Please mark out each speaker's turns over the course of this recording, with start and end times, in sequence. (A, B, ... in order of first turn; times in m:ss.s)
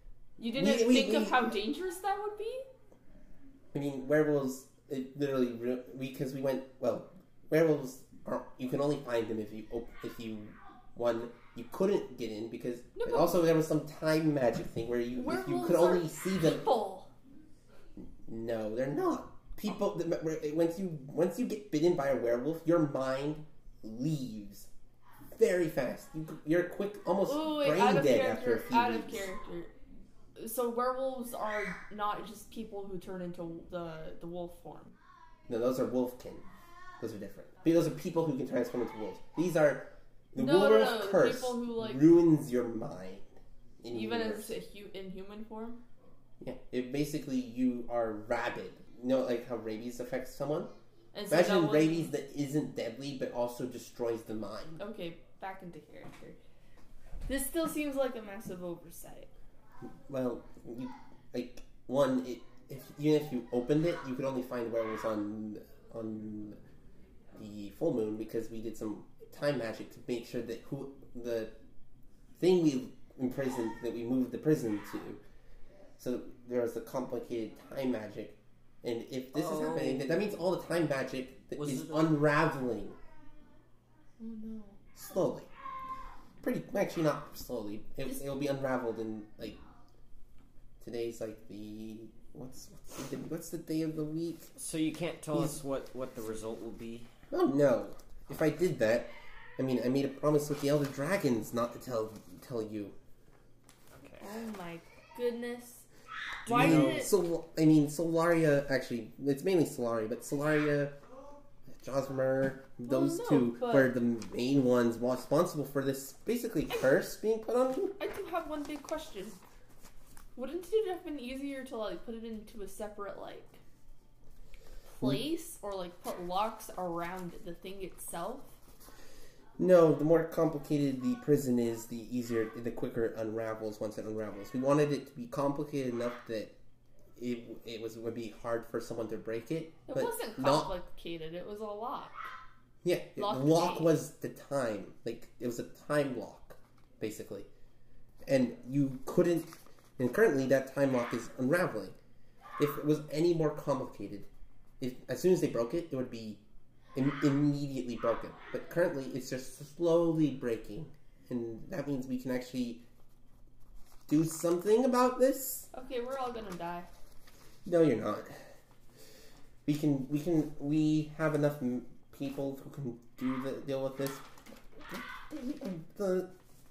0:00.4-0:02.6 A
0:00.5-0:01.5 B
0:03.7-0:16.7 B
0:13.0-0:13.4 A
0:15.2-0:17.1 A
0:18.0-0:24.7 B
0:25.3-0:29.3 B
0:27.2-0:29.7 A
0:30.4-0:34.9 A
0:35.5-0:36.4 B
0:37.0-0:44.5 B
0:40.4-0:42.0 A
0:43.9-0:45.8 A
0:46.4-0:50.7 B
0:51.1-0:52.1 A
0:51.3-0:54.8 B
0:54.8-0:56.4 A
0:57.3-0:59.3 A
1:00.1-1:06.6 B
1:07.3-1:11.5 B
1:12.4-1:15.2 B
1:16.0-1:23.0 B
1:19.3-1:20.3 C
1:21.6-1:22.1 C
1:24.2-1:24.8 A
1:24.9-1:25.5 B
1:26.4-1:29.6 B
1:30.8-1:34.5 B
1:34.6-1:37.1 C
1:37.3-1:42.9 B
1:43.9-1:44.3 C
1:44.2-1:45.8 A
1:46.4-1:47.1 C
1:46.4-1:47.1 A
1:46.5-1:51.0 B
1:51.7-1:58.0 B
1:52.8-1:53.9 A
1:58.0-1:59.4 A
2:00.3-2:03.6 A
2:04.9-2:08.5 A
2:09.6-2:16.5 B
2:17.2-2:20.7 B
2:19.9-2:22.1 A
2:22.8-2:27.5 B
2:23.2-2:23.9 A
2:28.2-2:32.0 B
2:32.6-2:34.3 B
2:34.8-2:36.4 B
2:36.9-2:42.8 B
2:44.1-2:45.7 B
2:45.7-2:46.9 A
2:47.6-2:48.4 B
2:49.6-2:54.2 B
2:54.9-2:56.3 B